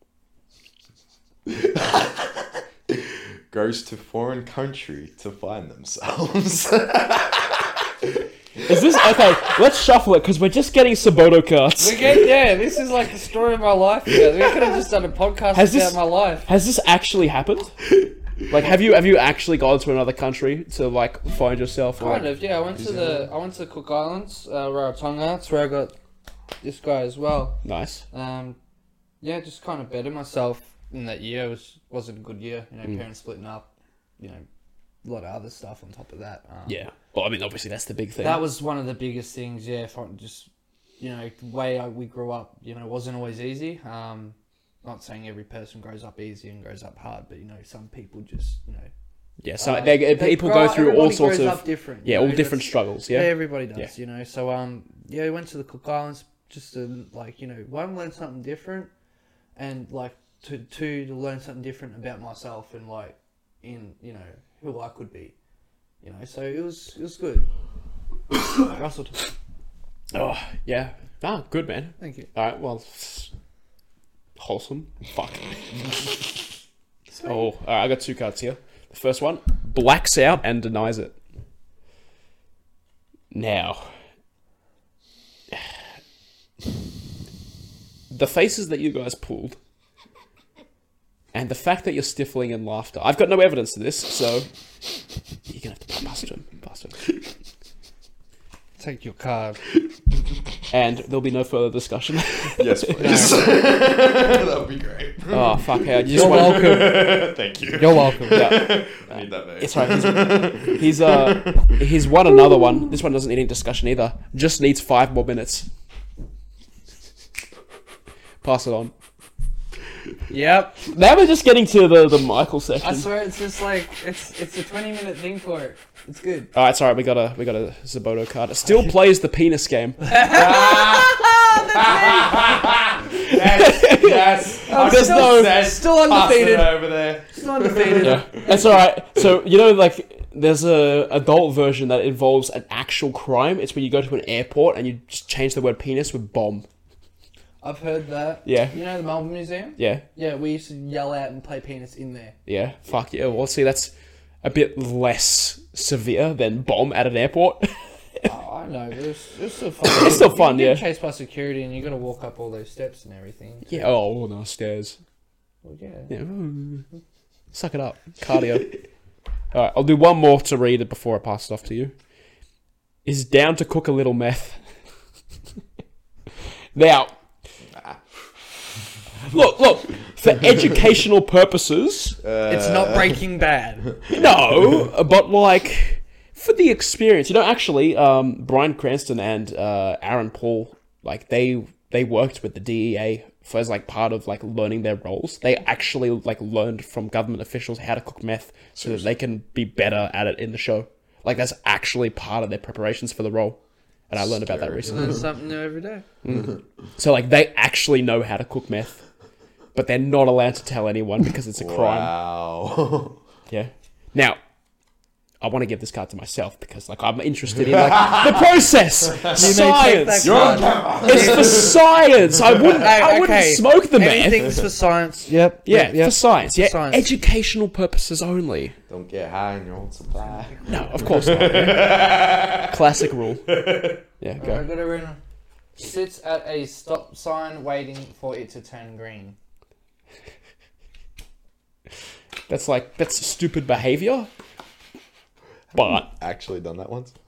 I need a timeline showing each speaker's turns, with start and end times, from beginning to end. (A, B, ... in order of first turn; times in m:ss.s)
0:01.5-0:09.3 A
0:08.7-0:12.2 B
0:11.8-0:16.5 C
0:15.5-0:17.8 B
0:18.5-0:22.3 B
0:22.0-0:25.9 C
0:22.8-0:23.1 A
0:26.6-0:27.6 C
0:27.6-0:28.0 B
0:28.1-0:28.6 C
0:29.2-0:33.7 C
0:34.2-0:34.4 C
0:35.0-0:36.7 C
0:36.6-0:38.4 B
0:38.2-0:48.9 C
0:49.4-0:53.9 B
0:49.6-0:58.9 C
0:59.6-1:05.3 C
1:06.0-1:07.5 C
1:08.6-1:09.2 C
1:10.1-1:13.3 B
1:12.0-1:12.3 C
1:14.4-1:15.6 B
1:17.2-1:21.2 B
1:23.3-1:23.9 B
1:28.1-1:29.6 B
1:31.3-1:34.5 B
1:35.5-1:37.0 B
1:38.8-1:39.6 C
1:40.7-1:43.3 B
1:42.6-1:52.9 A
1:43.0-1:43.4 C
1:45.3-1:46.9 B
1:46.1-1:47.2 C
1:47.8-1:48.5 C
1:48.3-1:55.7 B
1:58.4-1:58.9 B
2:00.3-2:00.8 C
2:00.9-2:03.1 B
2:02.8-2:06.5 C
2:06.5-2:10.1 B
2:10.0-2:12.6 C
2:10.3-2:18.6 A
2:13.3-2:15.5 B
2:14.6-2:18.8 C
2:18.0-2:26.6 B
2:27.6-2:32.3 C
2:28.4-2:28.8 B
2:29.8-2:30.0 B
2:32.4-2:33.9 B
2:34.4-2:38.0 B
2:38.2-2:43.9 C
2:39.8-2:40.8 B
2:43.6-2:45.0 B
2:45.6-2:46.1 C
2:46.1-2:46.9 B
2:47.5-2:48.8 B
2:49.5-2:51.9 B
2:53.0-2:54.6 B
2:56.7-2:57.1 B
2:57.7-2:58.0 A
2:59.3-3:02.2 B
3:02.2-3:03.2 A
3:02.5-3:03.9 C
3:04.1-3:23.6 B
3:18.8-3:19.0 A
3:24.1-3:25.3 B
3:24.2-3:25.2 A
3:24.9-3:26.0 C
3:26.2-3:29.0 B
3:29.7-3:32.1 B
3:31.6-3:33.2 A
3:33.5-3:34.4 B
3:35.4-3:44.6 B
3:37.6-3:38.5 A
3:39.1-3:39.5 A
3:39.2-3:41.5 C
3:40.2-3:42.8 A
3:42.8-3:47.2 C
3:45.6-3:48.8 B
3:48.9-3:52.8 A
3:50.1-3:51.2 C
3:50.6-3:53.6 B
3:53.5-3:54.0 A
3:54.2-3:54.7 B
3:54.4-3:55.2 C
3:55.8-3:59.4 C
4:02.5-4:04.3 B
4:05.7-4:07.1 A
4:05.7-4:06.1 B